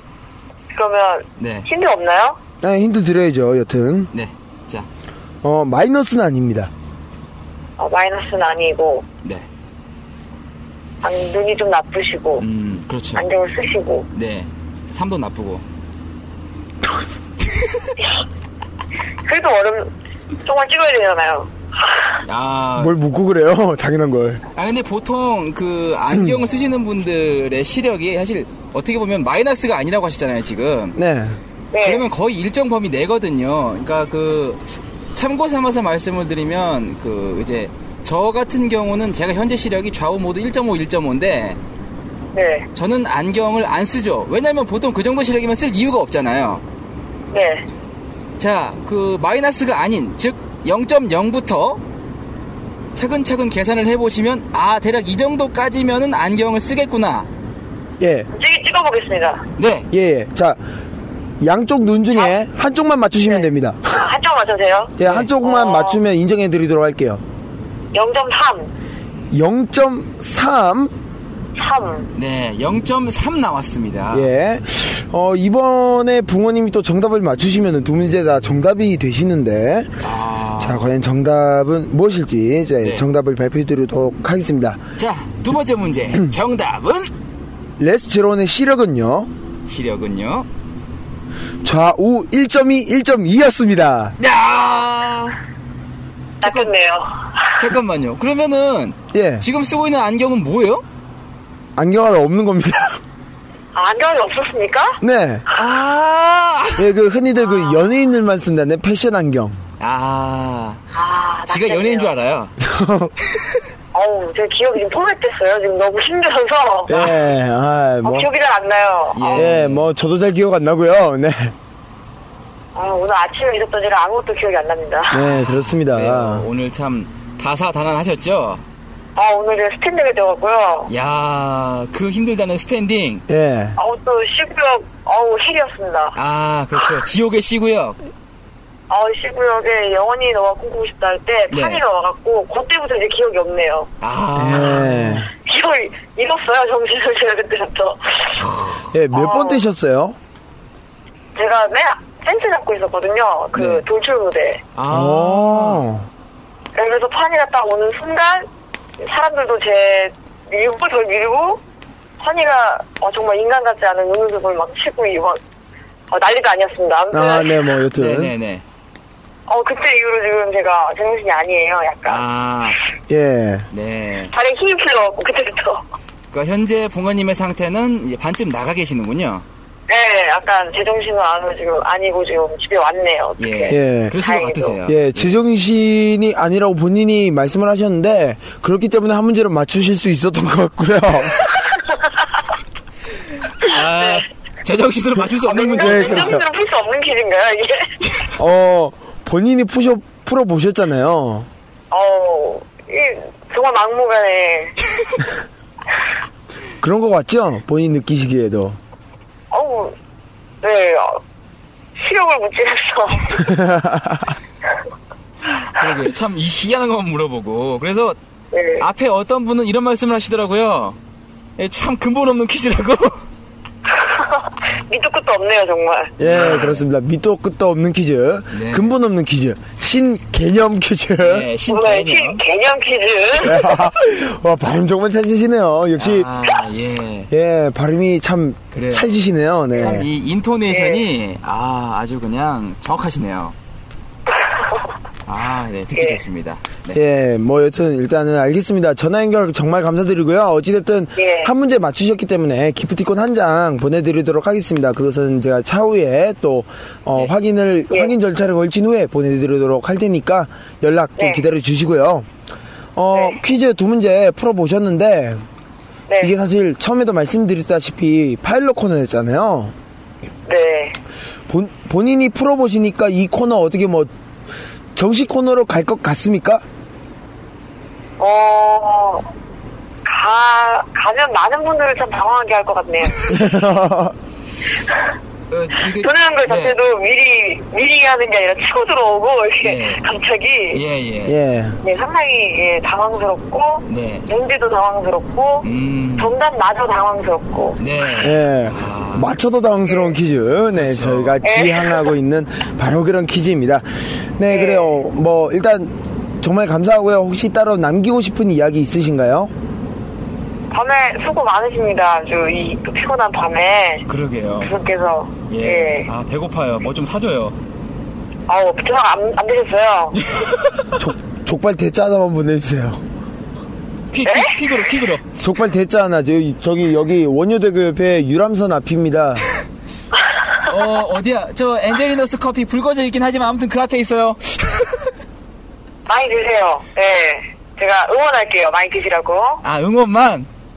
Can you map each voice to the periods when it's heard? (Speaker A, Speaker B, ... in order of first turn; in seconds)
Speaker A: 0.7-2.4, 7.8-9.0, 11.0-12.4, 13.1-14.1, 19.2-19.9, 20.4-22.1, 31.7-32.1, 42.3-42.7, 47.3-47.6, 58.3-59.4, 63.2-66.0, 67.9-68.7, 71.5-72.1, 96.4-97.7, 103.7-105.0, 107.4-107.9, 110.9-112.2, 113.9-116.9, 118.0-119.5, 122.7-125.2, 129.2-130.9, 133.8-136.2, 138.9-143.9, 145.3-148.3, 149.1-149.6, 151.3-154.6, 156.7-158.5, 159.0-161.6, 162.2-165.4, 166.1-167.5, 169.5-172.2, 174.3-175.8, 179.9-184.8, 193.9-194.2, 195.4-197.9, 201.9-204.7, 209.5-209.9, 210.6-211.2, 212.0-213.4, 218.5-218.9, 223.9-226.1, 231.7-233.7, 240.7-241.1, 244.3-244.8, 245.9-246.2, 251.2-251.5, 261.2-261.4, 263.1-263.4, 266.1-266.3, 270.4-271.0, 278.2-279.3, 280.0-283.4, 285.9-290.8, 291.8-295.7, 296.2-297.8, 299.9-300.2, 301.4-302.1, 304.5-305.0, 310.7-314.0, 314.6-316.1, 318.5-320.2, 324.2-324.6, 336.1-339.6
Speaker B: 1.4-1.7, 4.1-4.9, 12.4-13.3, 14.1-15.6, 22.2-22.9, 24.6-31.0, 31.8-41.6, 42.7-46.6, 48.4-51.8, 53.0-57.3, 59.6-59.9, 65.0-65.3, 72.1-74.3, 80.0-80.9, 85.0-87.1, 89.7-90.5, 94.2-95.4, 96.4-96.7, 97.5-100.8, 105.5-106.9, 109.8-110.8, 111.5-112.5, 116.9-117.2, 119.1-119.9, 125.2-128.6, 130.9-133.2, 136.1-138.0, 141.5-141.8, 144.0-145.2, 148.4-148.8, 153.5-153.8, 154.7-155.8, 167.9-168.6, 172.1-172.8, 173.7-174.3, 176.3-179.4, 183.4-185.4, 193.6-196.4, 215.7-218.2, 218.8-221.0, 221.6-223.2, 226.2-226.8, 228.5-228.9, 231.2-232.4, 236.0-237.3, 238.7-239.1, 239.7-243.5, 245.2-247.0, 285.5-286.8, 289.6-290.0, 290.7-291.4, 293.9-294.2, 295.6-296.3, 297.8-299.3, 300.7-301.4, 314.1-314.7, 315.5-317.6, 320.2-321.0, 324.1-325.3, 330.6-334.9, 339.6-340.5
Speaker C: 2.6-4.1, 5.4-6.7, 22.8-24.4, 30.9-31.4, 58.0-58.3, 59.9-60.6, 61.4-64.0, 65.0-67.2, 69.3-70.9, 74.1-79.9, 80.6-84.8, 87.8-89.3, 91.6-94.2, 99.1-99.5, 101.8-103.0, 105.0-105.5, 106.8-109.6, 112.6-113.1, 116.9-118.3, 119.3-121.5, 125.1-126.5, 133.3-133.7, 144.4-145.3, 148.9-150.2, 154.9-156.1, 167.1-168.3, 173.1-173.7, 183.7-184.1, 184.9-191.4, 195.7-196.4, 198.4-201.5, 206.8-208.8, 213.4-214.4, 226.2-231.5, 233.4-236.3, 237.3-240.1, 246.9-262.3, 262.9-265.4, 266.2-269.7, 271.5-274.1, 274.9-276.6, 283.3-284.2, 291.2-291.8, 298.2-309.5, 321.0-323.0, 325.4-329.4